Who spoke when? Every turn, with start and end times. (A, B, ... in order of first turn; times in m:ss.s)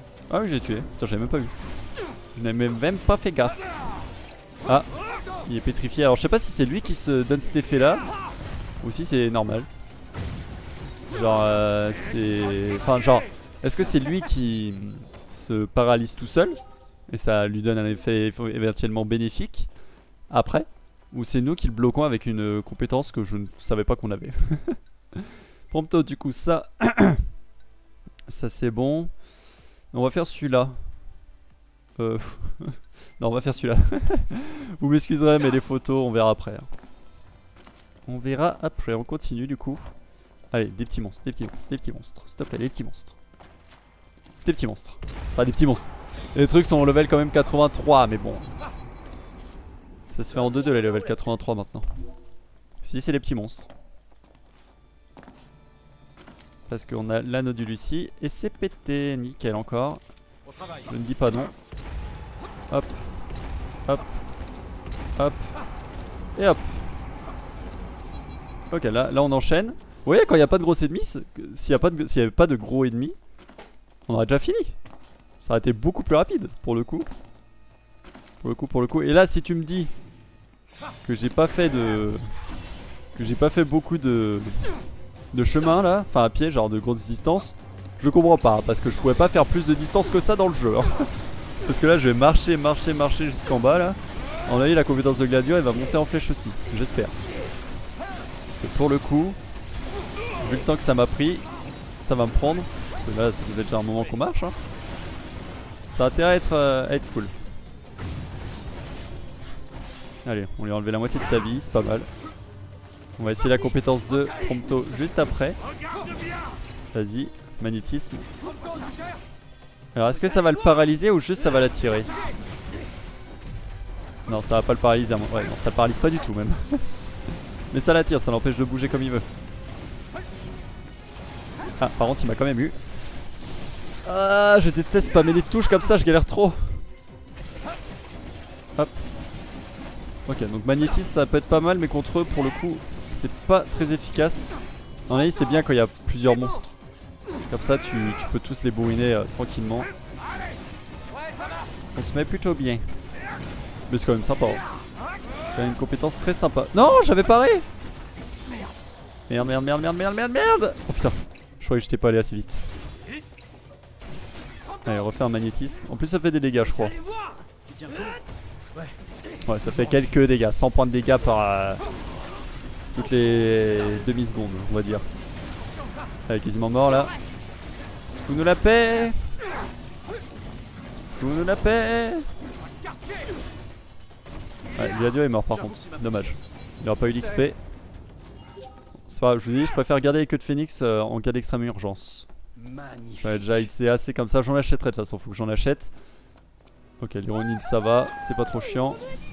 0:00.3-0:01.5 A
0:02.3-0:03.6 A
0:05.4-0:08.1 A
0:08.8-0:09.7 A
0:11.1-0:19.7 A
0:20.3-0:27.2 A
0:28.3-0:29.1 A
0:29.9-0:30.8 A
0:32.0-0:36.7 A
0:38.0-0:39.9 A
0:40.5-0:43.1 A
0:44.4-0:48.5 A
0:50.1-0:52.0 A
0:52.8-0:53.7 A
0:56.7-1:00.0 A
1:00.4-1:00.9 B
1:00.9-1:01.5 A
1:05.2-1:05.5 A
1:06.4-1:06.8 A
1:08.7-1:13.2 A
1:14.1-1:14.8 A
1:15.4-1:17.1 A
1:18.4-1:19.9 A
1:21.0-1:22.3 A
1:23.1-1:24.7 A
1:25.3-1:31.1 A
1:31.6-1:37.2 A
1:38.5-1:39.4 A
1:40.4-1:41.5 A
1:42.0-1:44.6 A
1:45.9-1:47.3 A
1:50.2-1:52.1 A
1:53.2-1:55.6 A
1:56.9-1:58.3 A
1:58.6-1:59.0 B
1:59.9-2:02.1 A
2:04.3-2:06.9 A
2:07.7-2:09.3 A
2:11.8-2:12.9 A
2:14.0-2:16.8 A
2:18.8-2:19.0 A
2:20.3-2:26.8 A
2:27.5-2:29.9 A
2:31.9-2:32.8 A
2:33.9-2:34.6 A
2:35.5-2:37.6 A
2:39.3-2:42.6 A
2:44.8-2:47.0 A
2:46.9-2:48.2 B
2:49.4-2:51.8 A
2:52.9-2:55.1 A
2:55.6-2:56.0 B
2:56.3-2:57.1 A
2:58.3-2:59.3 A
3:01.2-3:02.3 A
3:02.8-3:03.3 B
3:04.7-3:07.6 A
3:05.5-3:06.4 B
3:07.1-3:07.5 B
3:09.1-3:12.3 A
3:12.6-3:13.7 B
3:13.2-3:15.9 A
3:17.0-3:19.2 A